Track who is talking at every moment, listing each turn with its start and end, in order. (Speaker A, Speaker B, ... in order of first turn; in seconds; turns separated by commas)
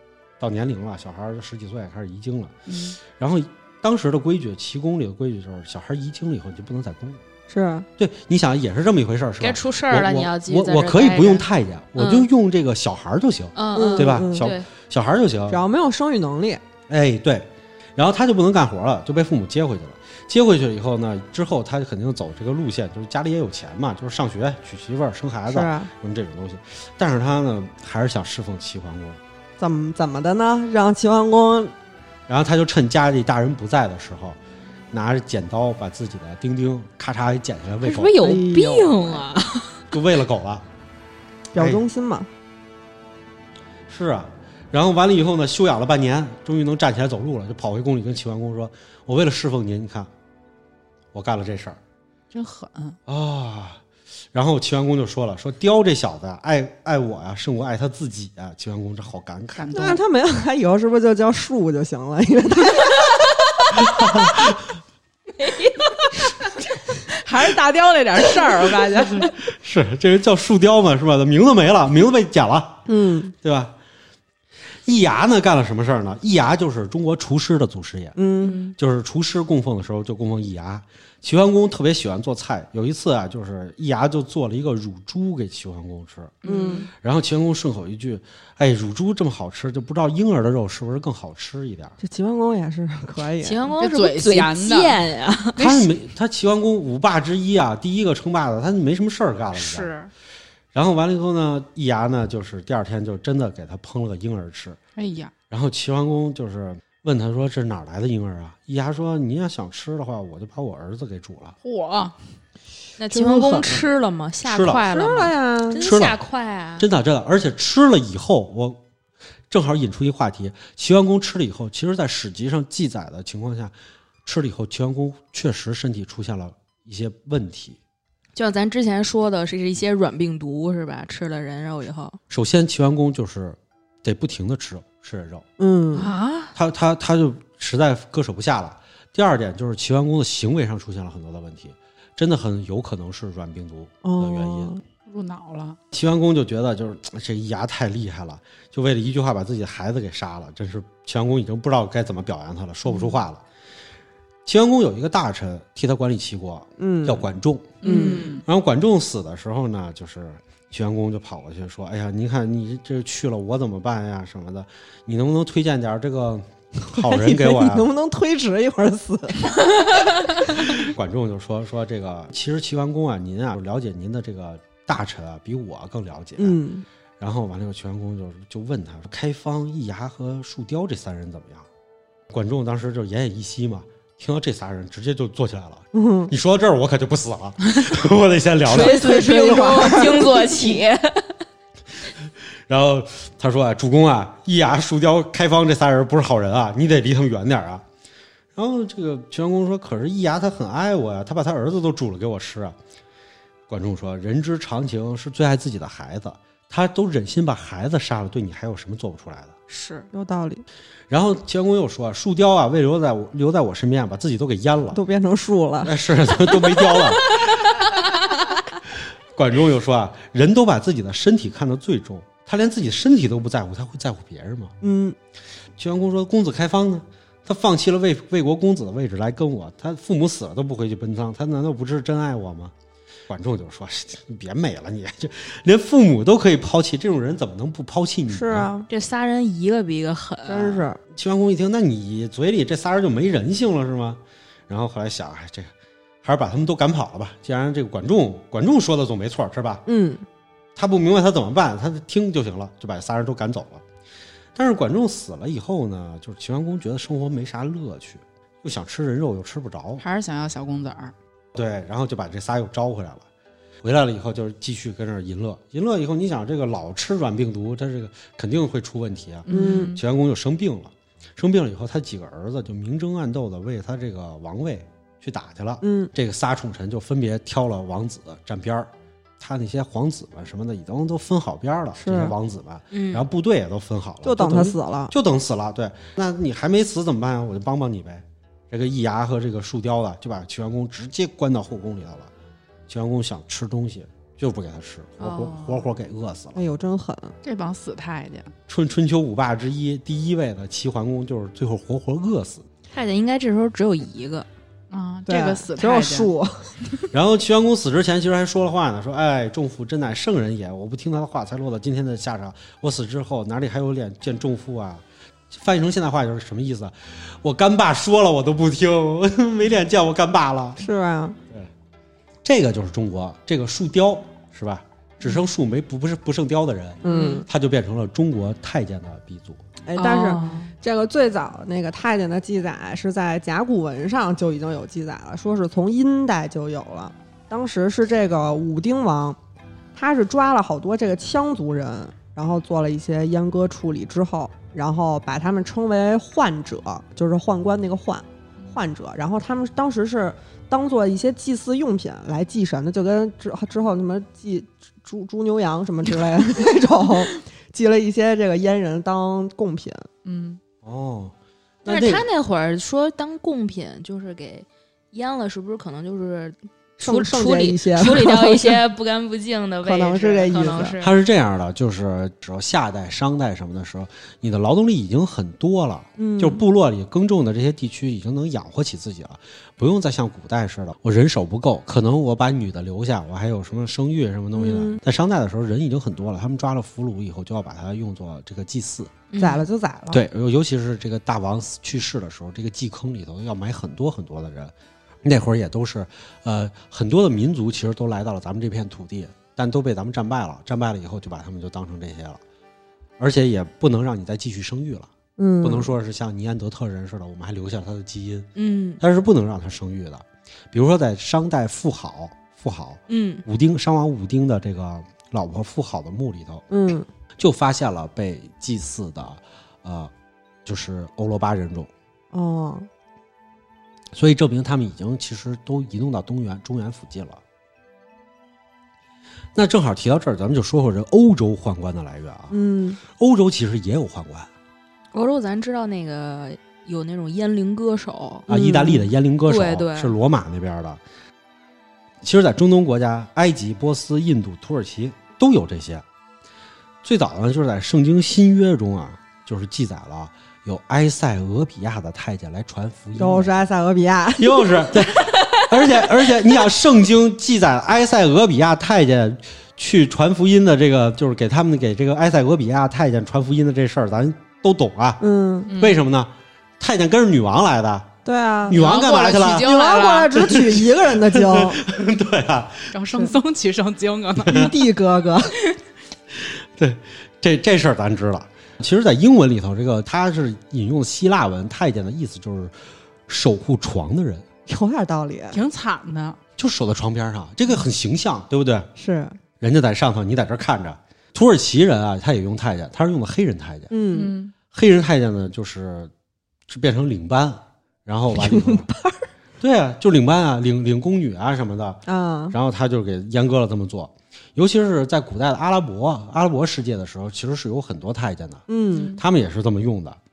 Speaker A: 0.4-7.2, Speaker B: 2.7-3.0, Speaker C: 7.5-7.9, Speaker A: 8.0-15.6, Speaker D: 9.4-12.3, Speaker D: 13.5-14.7, Speaker C: 13.7-14.5, Speaker C: 15.5-16.6, Speaker A: 16.9-29.2, Speaker C: 25.5-25.9, Speaker C: 29.6-31.7, Speaker A: 32.3-34.4, Speaker A: 34.9-38.2, Speaker D: 37.8-39.9, Speaker C: 38.2-39.0, Speaker A: 39.9-40.6, Speaker A: 41.5-41.8, Speaker C: 41.5-42.3, Speaker A: 43.9-50.1, Speaker A: 51.1-51.8, Speaker B: 52.3-53.0, Speaker A: 53.0-53.8, Speaker A: 54.3-59.7, Speaker B: 59.5-60.0, Speaker C: 59.7-63.2, Speaker A: 63.7-64.5, Speaker D: 65.4-65.7, Speaker B: 66.9-69.3, Speaker A: 69.1-72.8, Speaker C: 72.9-73.3, Speaker A: 73.4-73.7, Speaker A: 74.8-86.4, Speaker C: 78.2-78.6, Speaker B: 78.4-78.7, Speaker B: 86.4-86.8, Speaker C: 86.4-86.9, Speaker A: 86.9-92.0, Speaker C: 92.0-93.7, Speaker D: 93.4-95.8, Speaker B: 93.8-95.0, Speaker B: 95.5-95.9, Speaker A: 95.6-99.9, Speaker B: 99.5-100.1, Speaker A: 100.7-104.8, Speaker B: 105.0-105.3, Speaker A: 105.5-111.5, Speaker B: 111.6-112.2, Speaker D: 113.0-116.8, Speaker C: 113.1-113.8, Speaker A: 114.4-114.9, Speaker C: 114.9-115.8, Speaker A: 115.8-116.2, Speaker A: 116.8-118.8, Speaker A: 119.5-123.7, Speaker A: 124.2-127.8, Speaker D: 128.3-132.2, Speaker A: 132.3-135.4, Speaker C: 135.6-136.1, Speaker D: 135.9-136.5, Speaker A: 136.5-144.7, Speaker C: 144.0-144.8, Speaker B: 145.1-145.8, Speaker A: 145.9-153.4, Speaker A: 154.4-157.8, Speaker C: 156.8-157.3, Speaker C: 157.8-158.3, Speaker B: 157.8-158.4, Speaker D: 157.8-158.4, Speaker A: 158.4-167.9, Speaker C: 166.9-169.6, Speaker A: 170.6-176.6, Speaker C: 176.4-176.8, Speaker A: 177.2-181.7, Speaker A: 182.3-189.1, Speaker C: 185.9-186.3, Speaker D: 188.6-191.4, Speaker C: 188.7-190.7, Speaker A: 192.7-197.8, Speaker A: 198.5-202.8, Speaker A: 203.7-209.5, Speaker D: 209.7-210.1, Speaker C: 210.1-210.6, Speaker A: 211.1-215.0, Speaker C: 214.9-215.9, Speaker A: 215.8-217.5, Speaker A: 219.3-224.7, Speaker C: 224.8-225.2, Speaker A: 225.8-232.7, Speaker A: 233.3-238.7, Speaker C: 238.3-238.9, Speaker D: 238.9-240.9, Speaker C: 240.5-241.0, Speaker A: 241.1-245.7, Speaker A: 246.2-249.8, Speaker C: 249.8-250.2, Speaker A: 250.8-253.8, Speaker A: 254.6-260.0, Speaker B: 260.0-261.1, Speaker A: 261.5-263.2, Speaker A: 263.8-292.3, Speaker B: 269.4-270.0, Speaker C: 269.5-270.0, Speaker C: 275.8-276.1, Speaker C: 282.0-282.3, Speaker D: 282.9-283.2, Speaker C: 284.2-285.1, Speaker A: 292.9-296.6, Speaker B: 295.2-295.9, Speaker C: 296.5-297.3, Speaker B: 297.4-298.5, Speaker A: 298.7-302.7, Speaker D: 302.9-304.5, Speaker B: 304.9-306.3, Speaker C: 305.3-306.8, Speaker A: 307.1-320.8, Speaker C: 320.8-321.4, Speaker A: 322.4-329.6, Speaker C: 327.0-327.4, Speaker B: 327.1-327.4, Speaker C: 329.9-339.4, Speaker B: 330.0-330.7, Speaker C: 339.9-360.1, Speaker B: 360.2-360.6, Speaker A: 360.8-362.2, Speaker D: 361.9-371.1, Speaker C: 367.0-368.8, Speaker C: 369.8-370.9, Speaker A: 371.0-389.2, Speaker C: 376.2-376.6, Speaker C: 384.5-385.0, Speaker D: 389.3-389.7, Speaker C: 389.4-390.2, Speaker A: 390.1-402.4, Speaker A: 403.2-405.1, Speaker C: 405.4-405.9, Speaker A: 405.6-408.5, Speaker D: 408.5-409.0, Speaker A: 409.0-416.6, Speaker D: 413.1-413.4, Speaker C: 416.7-417.1, Speaker A: 417.4-420.1, Speaker A: 420.6-421.9, Speaker C: 422.3-422.9, Speaker A: 424.1-427.4, Speaker A: 429.5-434.5, Speaker C: 432.5-433.0, Speaker D: 435.1-438.5, Speaker C: 438.5-439.1, Speaker A: 438.5-441.0, Speaker D: 439.4-440.1, Speaker A: 442.2-446.0, Speaker A: 447.0-453.6, Speaker C: 453.1-455.0, Speaker A: 454.4-468.1, Speaker C: 465.2-465.7, Speaker B: 465.7-466.0, Speaker C: 468.2-471.8, Speaker A: 468.7-469.7, Speaker B: 468.7-470.6, Speaker A: 470.4-472.9, Speaker B: 472.9-474.6, Speaker C: 474.4-475.6, Speaker A: 476.3-482.7, Speaker A: 483.3-484.4, Speaker C: 484.7-485.6, Speaker B: 485.5-486.4, Speaker A: 486.6-488.9, Speaker C: 489.0-489.4, Speaker A: 489.6-493.9, Speaker C: 493.9-494.3, Speaker B: 494.1-494.5, Speaker A: 494.7-496.1, Speaker A: 496.7-498.9, Speaker C: 498.4-499.2, Speaker A: 499.6-510.2, Speaker C: 502.1-502.5, Speaker C: 508.7-509.2, Speaker B: 508.9-509.2